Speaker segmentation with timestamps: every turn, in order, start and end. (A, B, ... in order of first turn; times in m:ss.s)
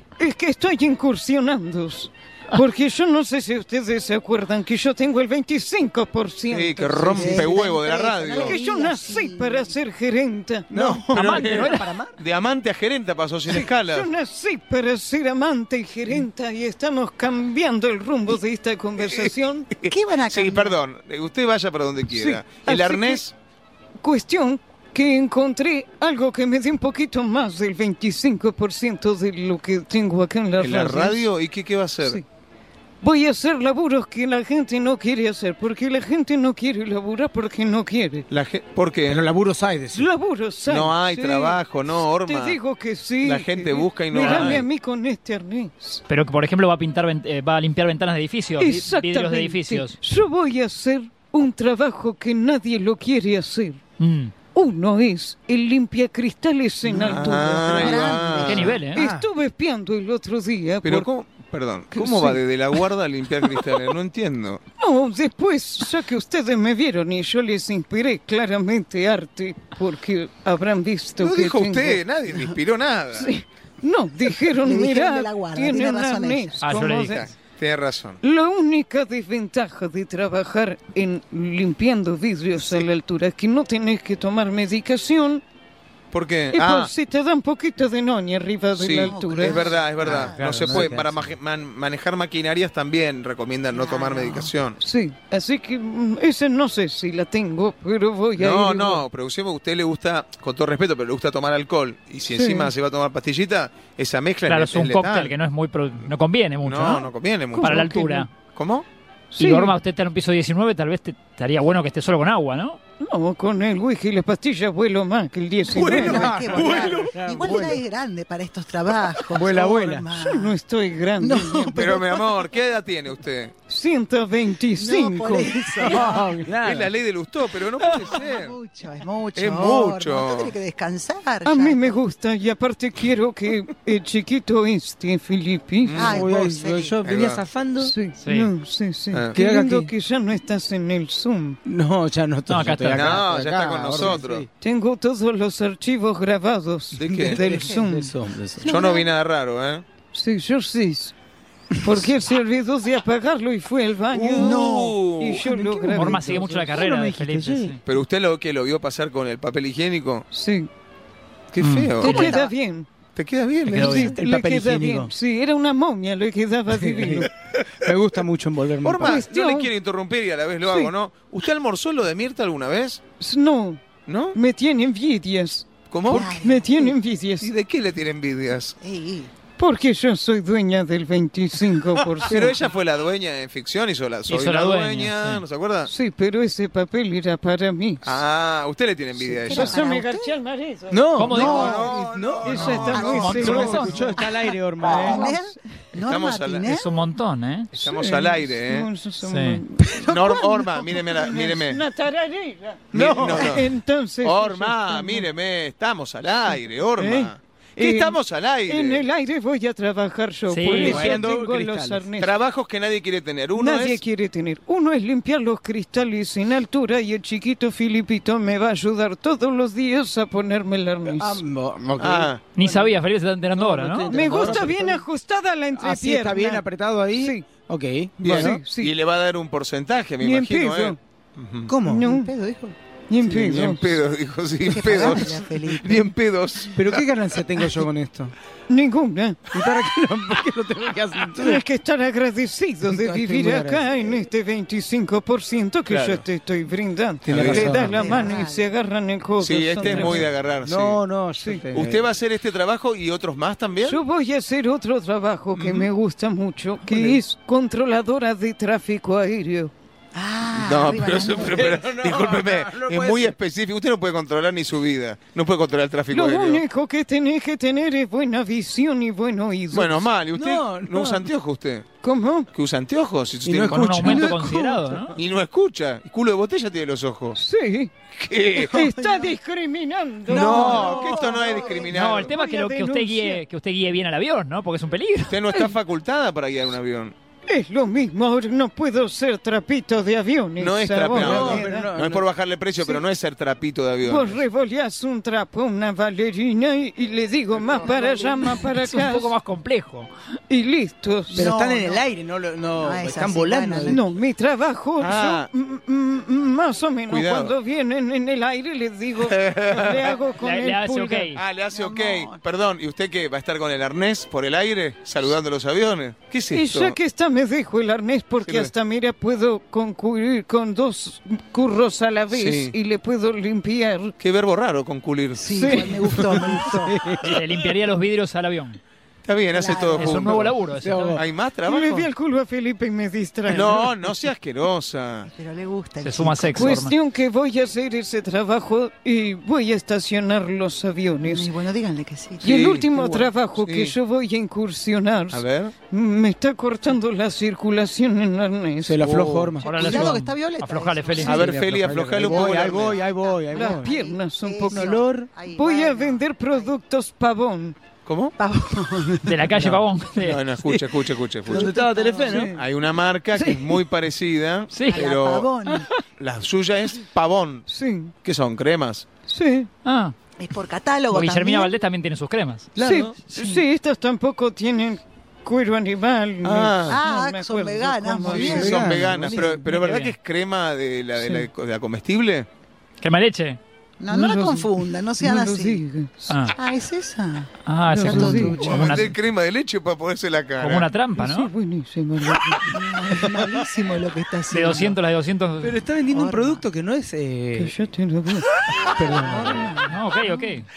0:00.2-0:07.6 A
0:06.5-0:08.6 B
0:07.2-0:09.8 C
0:08.4-0:10.7 A
0:10.7-0:12.2 D
0:10.7-0:14.1 B
0:11.1-0:11.9 E
0:13.5-0:19.7 A
0:19.0-0:23.3 B
0:19.9-0:20.8 C
0:22.1-0:23.2 A
0:24.0-0:31.3 A
0:30.6-0:32.2 B
0:33.0-0:38.3 A
0:38.3-0:39.3 B
0:39.1-0:40.1 D
0:39.9-0:46.0 A
0:40.7-0:42.6 B
0:43.2-0:44.7 B
0:44.2-0:44.6 E
0:46.1-0:50.0 E
0:48.6-0:53.8 A
0:54.0-0:54.3 E
0:54.5-1:01.1 A
0:56.9-0:58.8 B
0:57.7-0:58.8 C
0:58.4-0:59.0 E
0:58.9-0:59.2 D
1:00.8-1:04.6 B
1:01.9-1:02.9 A
1:03.4-1:03.7 A
1:04.8-1:12.0 A
1:11.2-1:13.3 B
1:13.1-1:17.3 A
1:14.6-1:16.6 C
1:16.6-1:17.2 E
1:17.0-1:18.2 B
1:18.2-1:25.4 A
1:26.1-1:26.9 B
1:26.5-1:29.8 A
1:28.8-1:34.8 B
1:28.9-1:30.4 C
1:30.0-1:31.4 D
1:33.7-1:34.5 C
1:34.8-1:39.0 A
1:38.4-1:45.3 B
1:42.3-1:42.7 A
1:44.5-1:48.3 E
1:46.6-1:47.9 B
1:47.5-1:48.3 A
1:48.5-1:48.9 B
1:49.3-1:49.8 A
1:49.4-1:52.8 E
1:53.0-1:56.4 A
1:55.7-1:57.2 B
1:55.8-1:57.8 D
1:55.9-2:00.6 C
1:59.3-2:00.1 D
2:00.2-2:02.0 A
2:01.2-2:02.4 C
2:01.7-2:03.5 B
2:03.7-2:06.1 A
2:04.8-2:06.5 C
2:05.8-2:07.0 D
2:06.6-2:08.6 B
2:07.9-2:12.0 C
2:09.4-2:10.5 B
2:11.4-2:16.2 A
2:15.8-2:16.2 B
2:16.0-2:17.0 C
2:16.0-2:17.9 D
2:17.0-2:17.4 B
2:17.8-2:21.6 A
2:18.2-2:18.5 E
2:19.3-2:19.9 D
2:21.6-2:24.5 D
2:22.5-2:23.2 E
2:22.9-2:24.4 B
2:24.6-2:28.2 A
2:27.0-2:27.4 B
2:27.0-2:28.7 D
2:27.5-2:27.8 C
2:28.6-2:29.1 C
2:28.6-2:29.8 B
2:30.1-2:31.1 A
2:31.8-2:36.3 A
2:34.1-2:35.4 B
2:34.3-2:37.8 D
2:35.9-2:37.8 E
2:37.9-2:40.3 B
2:40.3-2:40.7 A
2:41.5-2:42.4 B
2:41.6-2:42.4 E
2:42.0-2:42.9 A
2:42.0-2:42.5 C
2:43.2-2:44.1 B
2:43.7-2:45.1 D
2:43.7-2:44.2 E
2:43.7-2:47.3 A
2:46.7-2:47.3 D
2:47.8-2:49.2 D
2:48.8-2:53.0 B
2:49.0-2:49.7 A
2:50.6-2:50.9 A
2:53.2-2:53.8 A
2:54.1-2:54.4 B
2:54.3-2:57.5 A
2:55.9-2:56.3 B
2:56.1-2:57.0 C
2:57.4-2:58.8 B
2:58.8-2:59.3 C
2:59.6-3:02.7 A
3:02.3-3:05.9 B
3:04.3-3:05.4 E
3:05.9-3:08.2 A
3:08.0-3:09.8 B
3:09.2-3:10.3 C
3:09.5-3:11.8 A
3:10.9-3:15.4 D
3:11.2-3:11.9 E
3:11.3-3:14.0 B
3:12.4-3:14.0 A
3:12.5-3:14.0 E
3:12.8-3:16.9 C
3:15.0-3:15.3 A
3:16.0-3:16.8 B
3:16.7-3:17.7 E
3:17.7-3:18.9 B
3:17.8-3:20.2 A
3:19.2-3:19.6 E
3:19.9-3:20.8 C
3:20.1-3:21.8 B
3:21.0-3:25.3 A
3:22.9-3:23.6 D
3:22.9-3:23.7 B
3:24.2-3:29.0 B
3:27.0-3:32.3 A
3:30.5-3:31.0 E
3:30.7-3:32.1 D
3:30.8-3:31.2 B
3:32.2-3:34.0 B
3:33.6-3:41.4 A
3:41.1-3:43.0 D
3:42.0-3:42.4 B
3:42.6-3:44.6 E
3:43.5-3:45.0 D
3:44.1-3:47.5 A
3:45.7-3:48.6 D
3:48.2-3:51.7 B
3:48.2-3:49.0 A
3:50.2-3:51.0 A
3:51.7-3:52.1 D
3:51.9-3:52.3 A
3:52.0-3:52.8 C
3:53.1-3:54.0 A
3:53.2-3:57.1 B
3:54.6-3:56.1 C
3:56.7-3:58.3 D
3:58.7-3:59.4 A
3:59.5-4:01.6 D
4:01.4-4:10.3 A
4:02.8-4:04.0 D
4:05.9-4:06.2 B
4:07.2-4:08.3 D
4:07.3-4:07.8 B
4:07.7-4:08.7 C
4:09.4-4:11.0 B
4:09.8-4:12.1 D
4:11.7-4:14.0 B
4:13.8-4:19.7 A
4:15.5-4:15.9 B
4:16.9-4:17.2 D
4:20.1-4:21.6 C
4:20.6-4:26.6 B
4:21.1-4:23.4 D
4:26.1-4:30.1 A
4:29.7-4:31.9 B
4:30.3-4:31.3 D
4:32.0-4:32.5 A
4:32.5-4:34.4 B
4:33.4-4:35.2 D
4:33.6-4:35.2 E
4:35.2-4:37.4 B
4:37.4-4:37.9 A
4:38.2-4:38.9 B
4:38.6-4:39.3 D
4:38.6-4:43.4 A
4:40.3-4:41.8 D
4:40.3-4:42.3 B
4:41.2-4:41.9 C
4:41.9-4:45.4 E
4:45.3-4:47.2 B
4:47.5-4:51.9 A
4:50.6-4:54.4 B
4:51.1-4:52.3 D
4:54.0-4:59.3 A
4:57.9-4:58.5 C
4:58.6-5:00.1 E
5:00.5-5:01.5 A
5:01.3-5:04.0 D
5:01.4-5:02.0 C
5:02.8-5:04.0 C
5:03.9-5:11.3 A
5:05.0-5:05.5 B
5:07.1-5:07.6 B
5:09.2-5:10.1 B
5:10.4-5:11.4 E
5:11.3-5:17.0 B
5:11.7-5:12.4 C
5:16.5-5:24.1 A
5:18.4-5:18.7 B
5:22.3-5:22.7 B
5:24.2-5:25.8 B
5:25.4-5:27.0 C
5:25.4-5:26.3 A
5:26.0-5:27.6 D
5:27.2-5:28.8 E
5:29.2-5:32.1 B
5:29.5-5:30.5 C
5:30.0-5:31.2 E
5:30.8-5:31.2 D
5:31.6-5:33.9 A
5:33.5-5:35.3 B
5:35.3-5:36.8 C
5:36.0-5:36.9 E
5:36.6-5:41.5 A
5:41.2-5:42.6 C
5:42.4-5:49.1 A
5:42.4-5:43.9 B
5:45.3-5:45.7 B
5:48.8-5:50.1 D
5:49.0-5:49.6 B
5:49.6-5:51.4 C
5:49.6-5:51.5 E
5:51.2-5:53.0 B
5:51.3-5:53.9 D
5:53.1-5:56.8 C
5:53.5-5:57.8 A
5:54.7-5:55.3 D
5:58.0-5:58.4 B
5:58.4-5:59.6 C
5:59.2-6:00.5 E
5:59.6-6:01.7 B
6:01.5-6:02.5 D
6:01.5-6:02.4 C
6:02.2-6:02.6 A
6:02.5-6:05.5 B
6:03.3-6:03.9 A
6:04.7-6:05.1 E
6:04.9-6:05.9 C
6:06.0-6:07.6 B
6:07.7-6:08.1 A
6:08.2-6:09.1 B
6:09.3-6:09.7 A
6:09.8-6:10.2 E
6:10.4-6:11.8 C
6:11.1-6:12.7 E
6:12.8-6:13.6 C
6:12.8-6:18.9 A
6:16.4-6:17.0 B
6:16.8-6:19.6 C
6:18.3-6:22.5 B
6:18.3-6:19.5 D
6:19.7-6:20.2 E
6:21.2-6:21.5 A
6:23.0-6:23.6 E
6:24.0-6:25.8 C
6:24.1-6:26.4 A
6:26.3-6:26.6 E
6:26.5-6:29.1 C
6:27.7-6:29.1 E
6:27.9-6:28.9 A
6:28.6-6:30.9 B
6:30.6-6:31.5 E
6:31.2-6:32.8 A
6:32.7-6:35.0 C
6:34.5-6:35.8 E
6:35.6-6:37.7 D
6:36.1-6:36.6 C
6:37.6-6:38.5 A
6:39.0-6:39.8 D
6:39.0-6:40.0 C
6:39.9-6:40.7 E